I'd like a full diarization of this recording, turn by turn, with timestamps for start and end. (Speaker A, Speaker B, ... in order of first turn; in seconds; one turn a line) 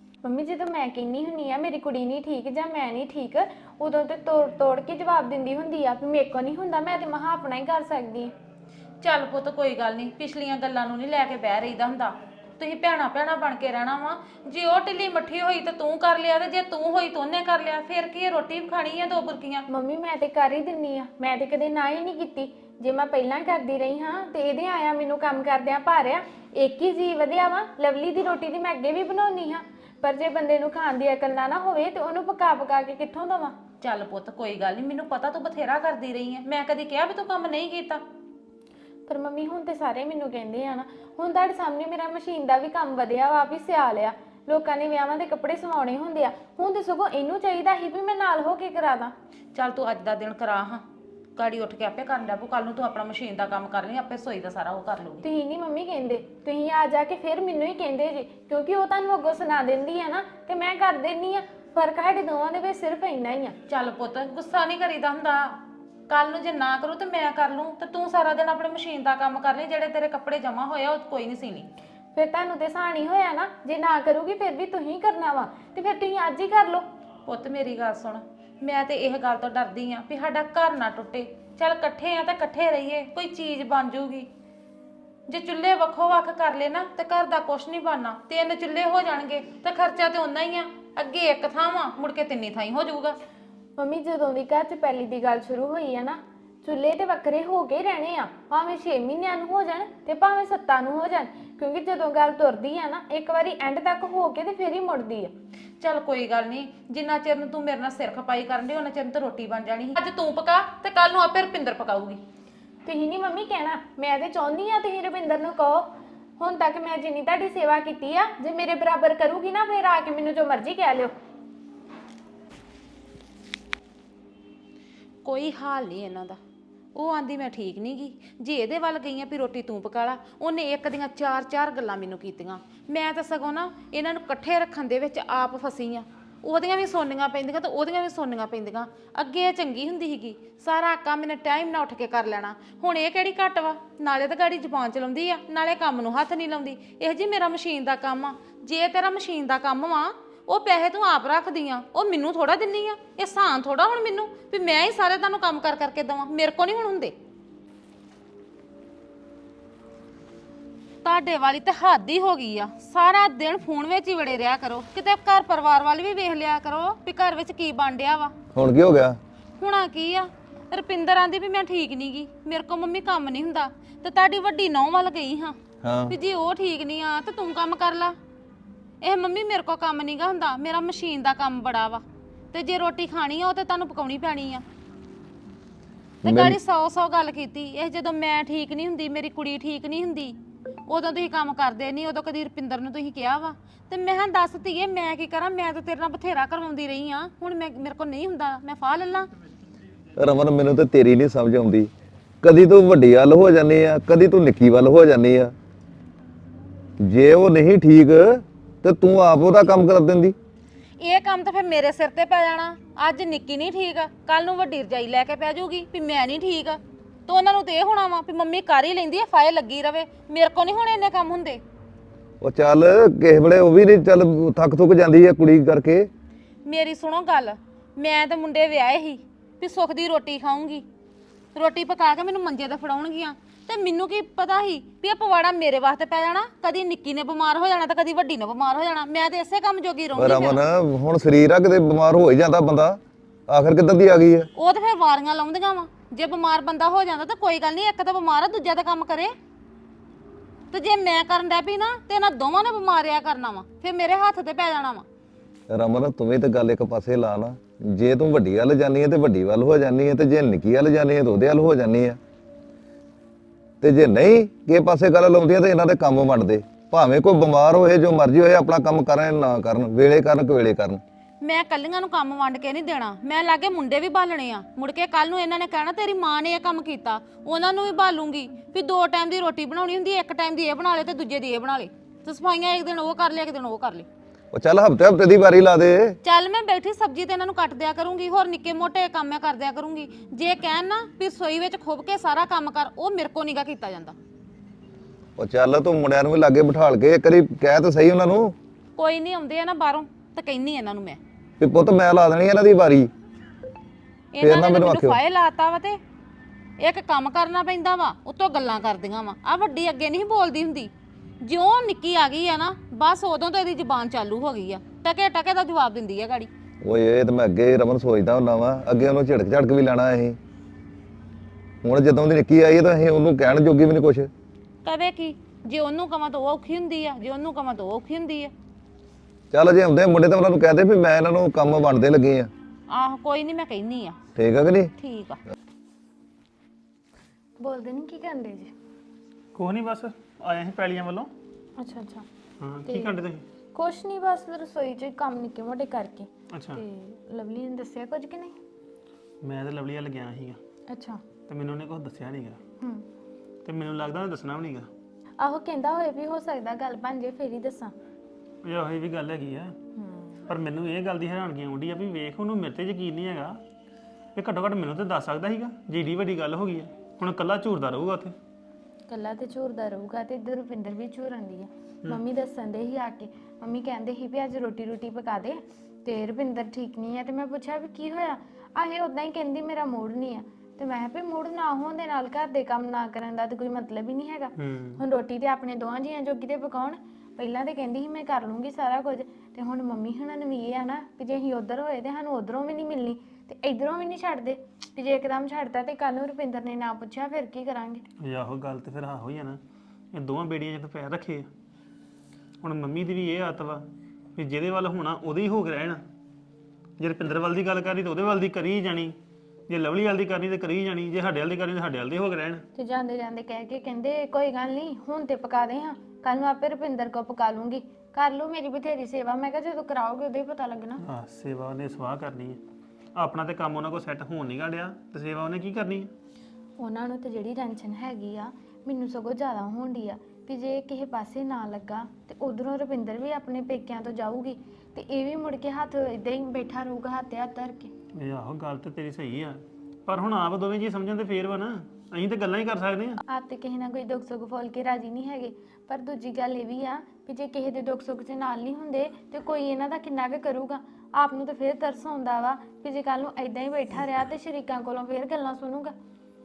Speaker A: 0.2-8.3
Speaker B: 9.0-19.7
Speaker A: 19.7-33.6
Speaker B: 33.8-38.0
Speaker A: 39.1-49.1
Speaker B: 49.5-50.8
Speaker B: 51.4-55.2
Speaker A: 55.2-63.6
Speaker B: 63.7-71.7
Speaker A: 72.1-76.8
Speaker B: 77.3-84.3
Speaker B: 85.3-93.2
Speaker A: 93.8-105.3
Speaker B: 105.8-112.2
Speaker A: 112.8-121.1
Speaker B: 125.2-126.4
Speaker B: 127.0-157.2
Speaker B: 161.0-168.3
Speaker C: 168.5-169.2
Speaker B: 169.6-175.6
Speaker C: 175.8-176.2
Speaker B: 176.1-178.2
Speaker B: 179.0-184.6
Speaker C: 186.2-186.6
Speaker B: 186.2-199.3
Speaker C: 200.2-201.9
Speaker C: 202.4-205.5
Speaker C: 207.0-210.4
Speaker B: 211.0-221.6
Speaker C: 222.4-226.1
Speaker B: 226.7-230.9
Speaker B: 231.6-240.6
Speaker C: 240.2-244.5
Speaker B: 244.6-249.3
Speaker B: 250.7-255.1
Speaker C: 255.7-262.2
Speaker C: 263.8-271.0
Speaker B: 271.4-284.1
Speaker C: 284.5-286.2
Speaker B: 286.2-294.2
Speaker C: 295.4-298.6
Speaker B: 299.0-301.2
Speaker C: 301.6-303.1
Speaker B: 304.3-306.0
Speaker C: 304.4-305.2
Speaker B: 306.8-310.9
Speaker B: 311.4-316.5
Speaker C: 316.8-320.4
Speaker C: 321.8-324.3
Speaker B: 324.9-328.5
Speaker C: 329.5-332.5
Speaker B: 332.9-334.2
Speaker C: 334.4-334.9
Speaker B: 335.0-335.4
Speaker A: 337.6-338.7
Speaker D: 339.6-341.3
Speaker A: 341.8-342.3
Speaker D: 342.6-343.4
Speaker A: 342.9-343.1
Speaker A: 343.7-348.6
Speaker D: 346.5-346.8
Speaker D: 349.4-350.6
Speaker A: 350.9-351.2
Speaker D: 351.5-352.6
Speaker D: 353.6-354.9
Speaker A: 355.4-357.9
Speaker D: 358.6-359.8
Speaker A: 360.0-360.4
Speaker D: 360.5-363.6
Speaker D: 364.4-368.4
Speaker A: 369.1-398.0
Speaker D: 384.6-385.0
Speaker D: 398.2-399.6
Speaker D: 400.1-401.5
Speaker D: 402.6-406.0
Speaker D: 407.0-409.2
Speaker D: 409.7-412.6
Speaker A: 412.8-421.0
Speaker D: 421.0-422.6
Speaker D: 423.1-426.1
Speaker A: 426.8-437.9
Speaker D: 438.1-443.2
Speaker A: 443.3-455.9